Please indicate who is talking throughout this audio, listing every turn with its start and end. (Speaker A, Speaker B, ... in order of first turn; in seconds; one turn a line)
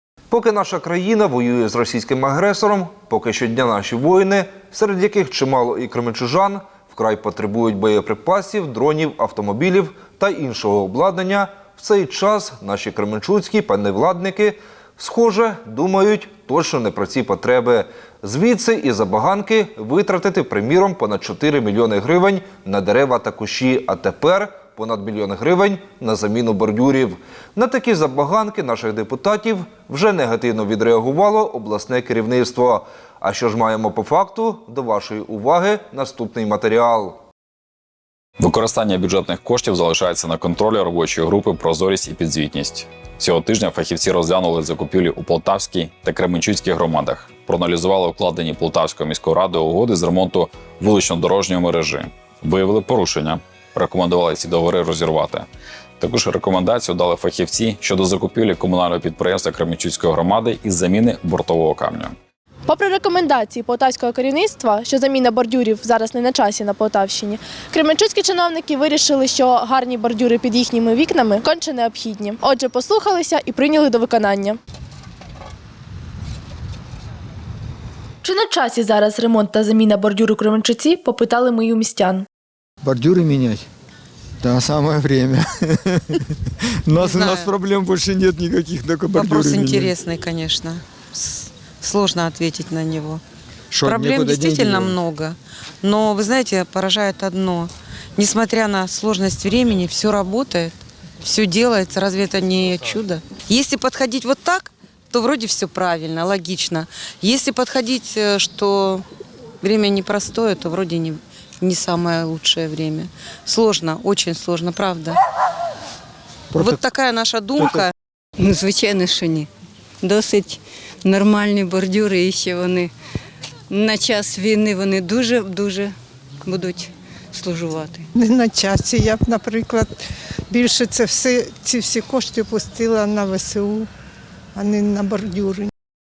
Speaker A: 0.3-37.2
Speaker B: 38.4-55.5
Speaker B: 56.0-62.1
Speaker C: 62.7-74.6
Speaker C: 78.2-82.2
Speaker D: 82.8-83.6
Speaker D: 84.4-86.2
Speaker D: 86.9-90.0
Speaker E: 87.0-87.5
Speaker E: 89.1-93.2
Speaker D: 93.7-95.0
Speaker E: 93.8-109.0
Speaker E: 109.6-115.2
Speaker D: 116.5-116.8
Speaker E: 116.6-117.9
Speaker D: 117.6-117.9
Speaker F: 118.4-119.5
Speaker F: 120.0-122.9
Speaker F: 123.7-125.9
Speaker F: 126.4-128.1
Speaker G: 128.1-130.0
Speaker G: 130.5-133.9
Speaker G: 134.6-135.7